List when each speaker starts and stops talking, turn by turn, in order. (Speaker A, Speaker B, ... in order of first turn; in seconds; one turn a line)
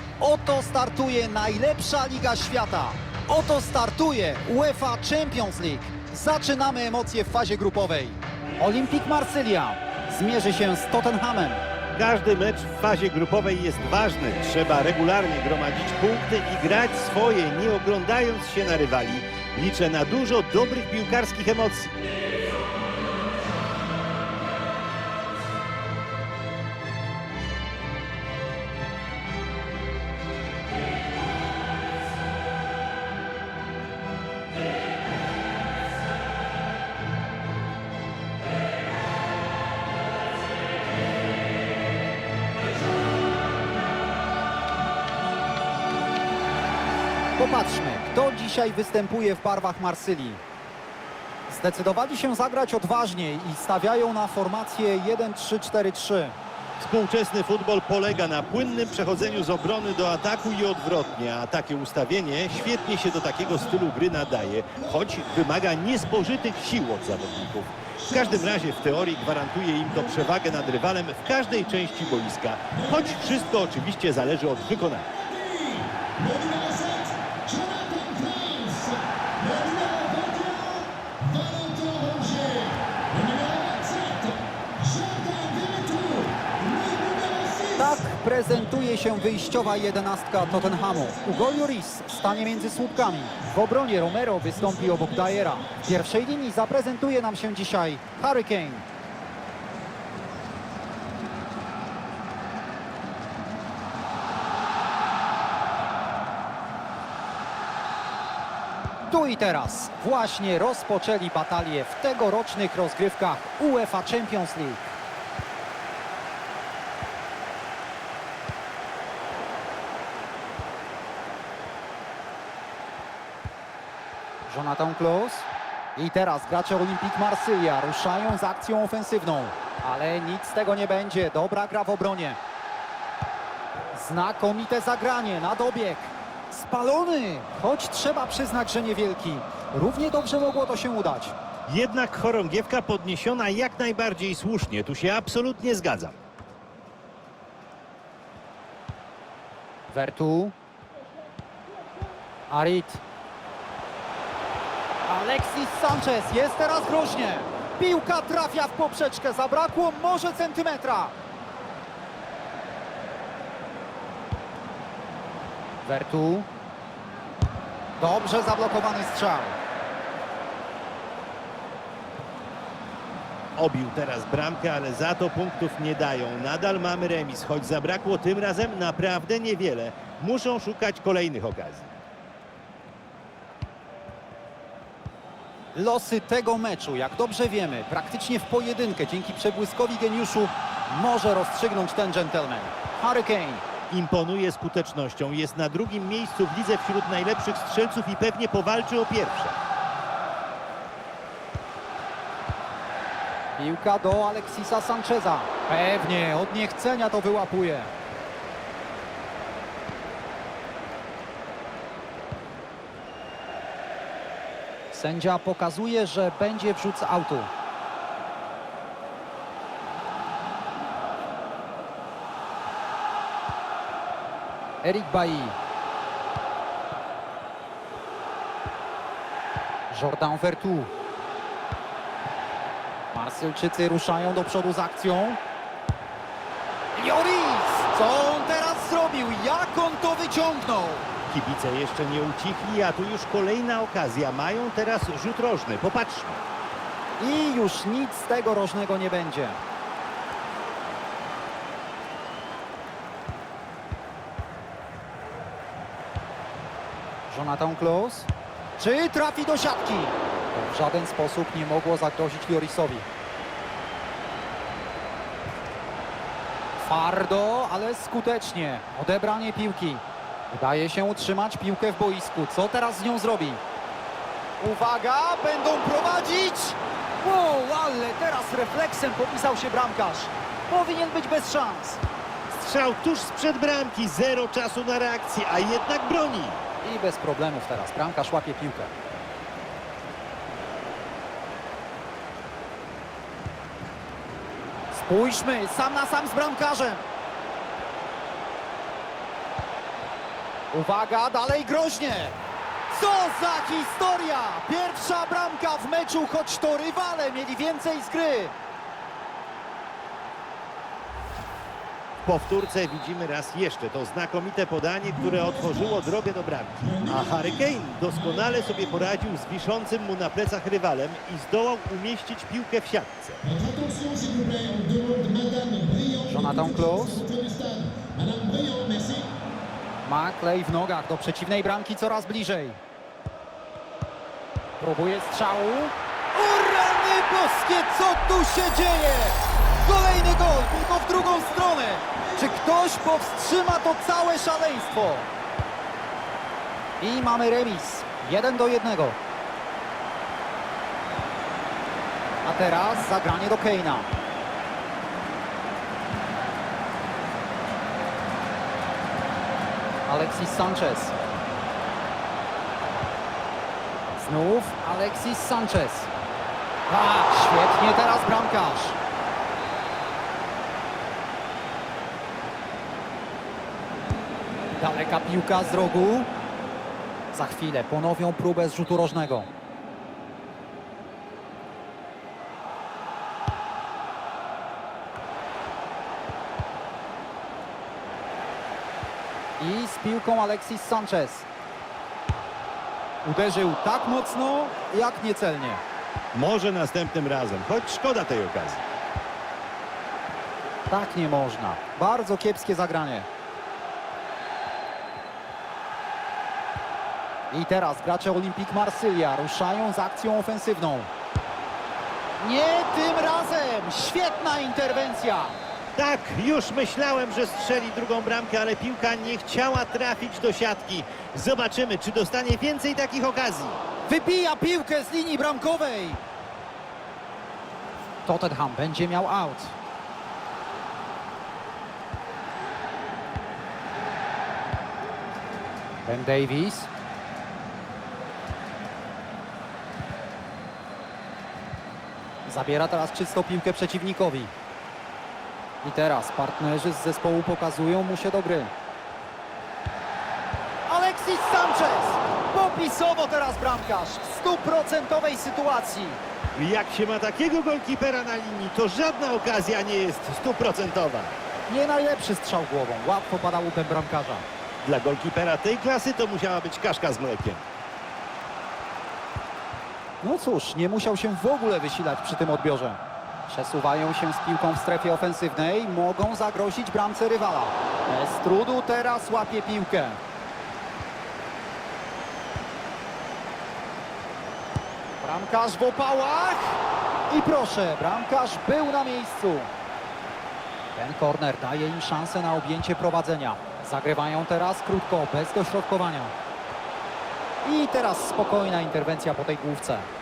Speaker A: 0.2-11.6
Speaker B: 11.9-22.0
Speaker A: 47.4-50.4
Speaker A: 51.5-56.4
Speaker B: 56.8-75.1
Speaker C: 75.2-87.7
Speaker A: 87.7-98.8
Speaker A: 109.1-114.9
Speaker A: 124.5-132.4
Speaker A: 133.9-141.4
Speaker B: 141.7-146.2
Speaker A: 149.9-150.6
Speaker A: 152.5-153.0
Speaker A: 155.1-161.2
Speaker A: 165.8-166.5
Speaker A: 168.0-169.6
Speaker B: 173.6-181.9
Speaker A: 185.7-193.6
Speaker B: 193.9-199.6
Speaker A: 203.6-207.9
Speaker A: 214.9-217.5
Speaker A: 224.8-225.6
Speaker A: 229.9-230.9
Speaker A: 233.1-235.4
Speaker A: 236.9-241.1
Speaker B: 241.3-246.4
Speaker A: 247.2-249.6
Speaker A: 257.3-263.1
Speaker A: 266.8-273.6
Speaker A: 274.6-282.0
Speaker B: 282.5-286.6
Speaker A: 286.8-288.9
Speaker A: 294.9-297.0
Speaker A: 300.7-302.4
Speaker A: 302.9-308.5
Speaker B: 312.2-323.5
Speaker C: 323.6-326.2
Speaker A: 326.2-327.3
Speaker C: 327.3-329.3
Speaker A: 330.0-332.8
Speaker A: 334.8-345.3
Speaker A: 347.0-349.2
Speaker A: 352.4-354.1
Speaker A: 360.1-361.1
Speaker A: 364.2-366.1
Speaker A: 366.9-369.0
Speaker A: 374.8-376.3
Speaker A: 377.3-379.5
Speaker A: 389.6-391.5
Speaker A: 393.2-395.8
Speaker B: 396.3-398.9
Speaker A: 400.9-403.3
Speaker A: 407.5-411.1
Speaker A: 412.4-415.6
Speaker B: 416.0-423.8
Speaker A: 424.1-426.2
Speaker A: 428.2-429.8
Speaker A: 436.1-436.9
Speaker A: 442.5-444.5
Speaker A: 445.8-448.7
Speaker A: 450.9-456.2
Speaker B: 456.6-461.4
Speaker A: 461.7-464.4
Speaker B: 464.8-467.6
Speaker A: 470.2-480.2
Speaker A: 485.2-489.7
Speaker A: 490.9-496.3
Speaker A: 497.6-500.1